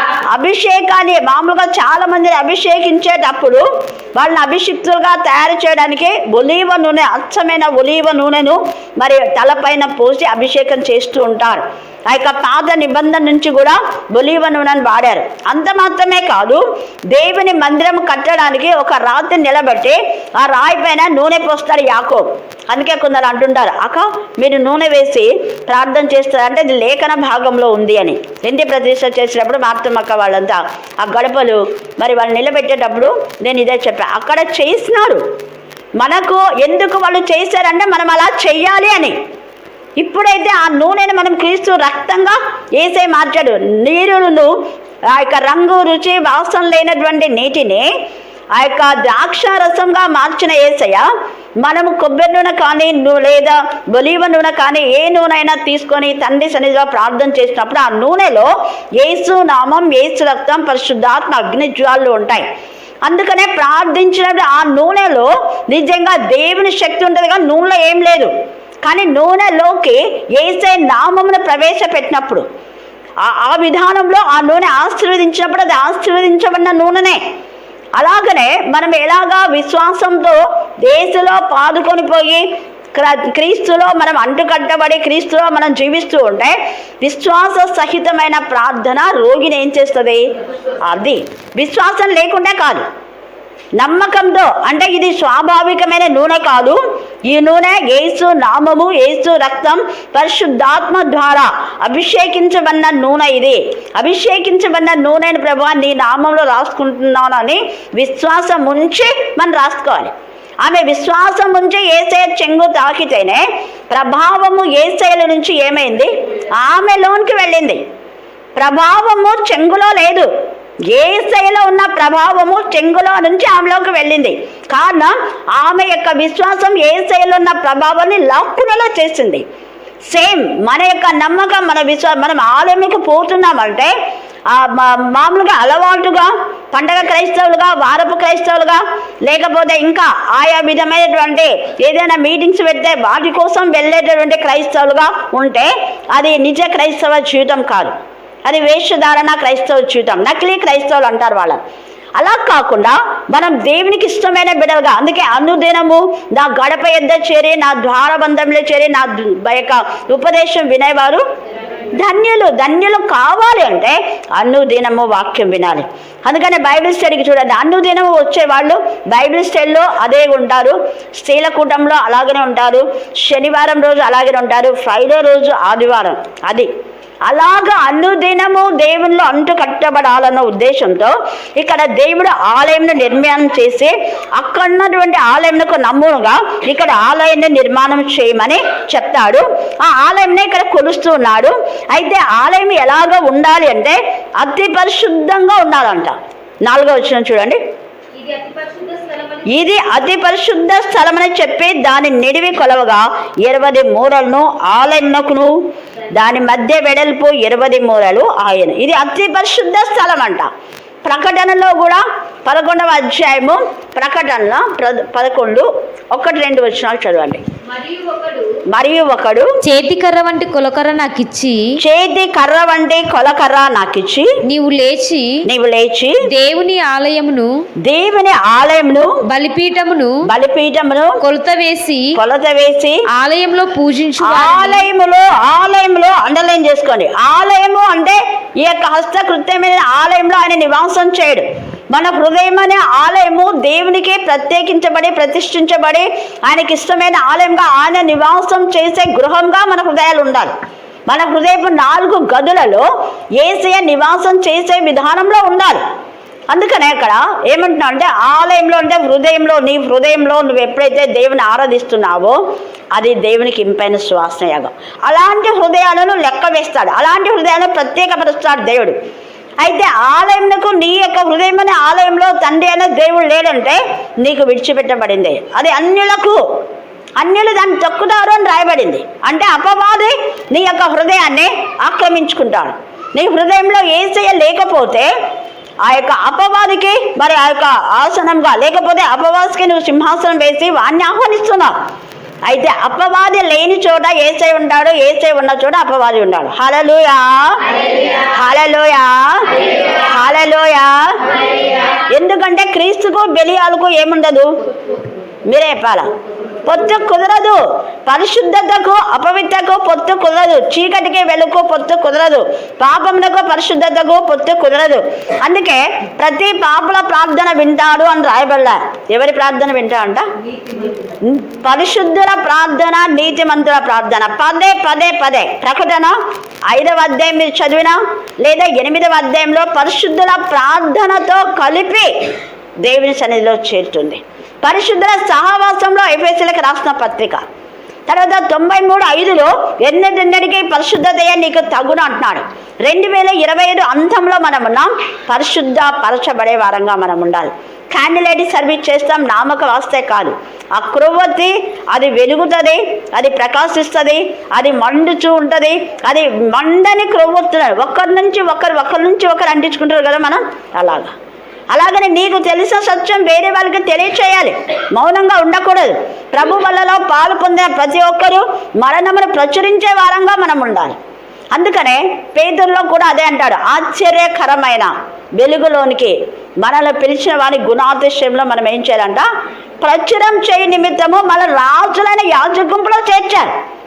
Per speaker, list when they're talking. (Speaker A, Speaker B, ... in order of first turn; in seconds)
Speaker A: 0.3-35.2, 36.0-39.1, 40.0-44.5, 45.1-47.9, 48.6-51.1, 51.6-62.5, 63.0-68.3, 68.8-72.5, 73.2-77.2, 78.0-90.3, 90.8-92.8, 93.8-117.8, 118.6-120.3, 120.9-129.4, 130.1-133.9, 134.5-147.9, 148.4-151.6, 152.2-161.2, 161.9-176.7, 177.2-197.6, 199.4-205.6, 206.1-210.5, 211.0-217.4, 218.7-219.5, 221.8-224.3, 225.4-226.2, 227.8-229.2, 230.2-231.2, 232.1-233.0, 234.2-250.5, 251.1-252.8, 253.4-255.8, 256.5-262.4, 262.9-269.0, 269.6-276.4, 277.2-285.1, 285.8-291.7, 292.4-304.6, 305.5-306.1, 306.6-320.3, 321.2-326.1, 326.7-332.1, 332.8-337.4, 338.1-361.1, 361.7-371.0, 371.5-379.3, 379.8-383.5
Speaker B: 198.1-199.6, 217.7-218.5, 301.4-301.8
Speaker C: 219.6-221.7, 224.5-225.4, 226.2-227.5, 229.3-230.2, 231.2-232.1, 233.1-234.8